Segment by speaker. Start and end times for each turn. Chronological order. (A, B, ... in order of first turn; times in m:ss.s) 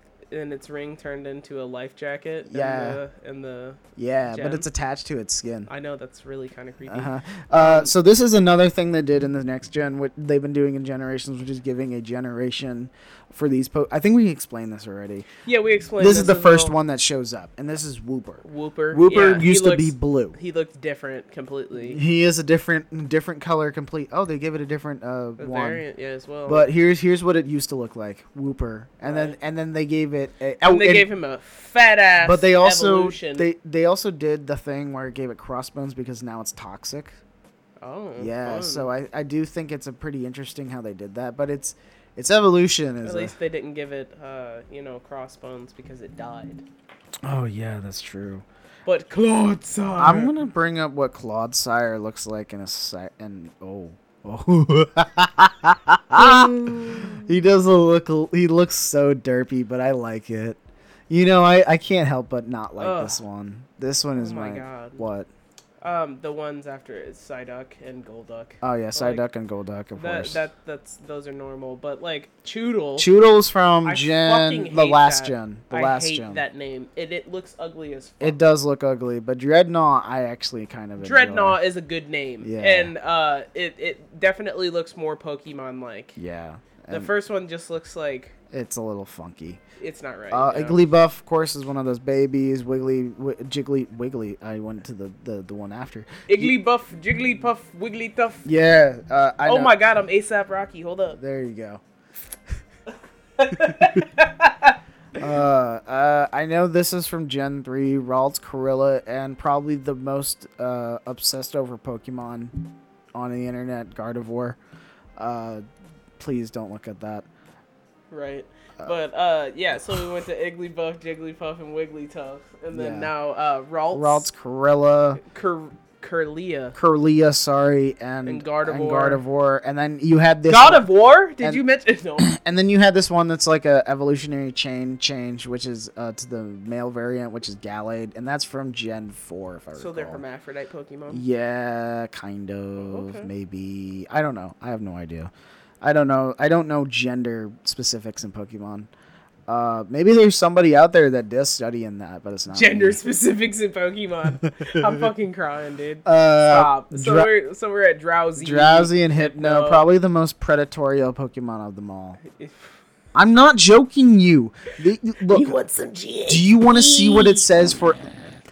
0:00.3-0:04.7 A
0:02.5-0:03.0 B
0:04.0-0:05.7 B
0:05.7-0:07.9 A
0:06.9-0:15.3 B
0:15.5-0:16.8 A
0:16.0-0:20.4 B
0:18.4-0:22.0 A
0:21.8-0:25.8 B
0:25.4-0:26.7 A
0:26.5-0:31.1 B
0:29.0-0:29.4 A
0:30.6-0:33.5 A
0:32.2-0:37.2 B
0:37.8-0:38.9 A
0:38.2-0:43.4 B
0:43.0-0:46.6 A
0:47.2-0:48.4 B
0:48.9-0:50.3 A
0:50.0-1:00.6 B
0:56.1-0:57.3 A
1:01.1-1:05.3 B
1:02.8-1:03.2 A
1:04.2-1:05.0 A
1:05.8-1:09.3 A
1:08.6-1:10.4 B
1:10.0-1:13.1 A
1:13.0-1:16.4 B
1:13.8-1:18.4 A
1:18.2-1:21.6 B
1:21.0-1:26.2 A
1:22.4-1:22.9 B
1:26.2-1:27.1 B
1:26.9-1:28.3 A
1:28.5-1:29.6 B
1:29.8-1:30.8 A
1:30.3-1:36.5 B
1:36.3-1:38.5 A
1:38.4-1:39.7 B
1:39.4-1:41.2 A
1:41.2-1:41.8 B
1:43.4-1:44.8 A
1:43.5-1:44.0 B
1:45.2-1:52.5 B
1:53.1-1:54.6 B
1:55.2-1:55.6 B
1:56.2-1:57.3 B
1:58.1-2:04.3 A
2:02.7-2:03.1 B
2:03.9-2:05.2 B
2:05.2-2:06.8 A
2:06.8-2:10.9 B
2:08.2-2:09.2 A
2:10.5-2:12.3 A
2:12.2-2:20.2 B
2:19.8-2:21.2 A
2:21.1-2:28.9 B
2:22.8-2:23.3 A
2:29.5-2:33.0 B
2:32.5-2:39.9 A
2:34.5-2:35.1 B
2:36.0-2:37.3 B
2:38.4-2:42.2 B
2:42.2-2:42.7 A
2:43.1-2:45.6 B
2:45.2-2:47.5 A
2:46.3-2:48.1 B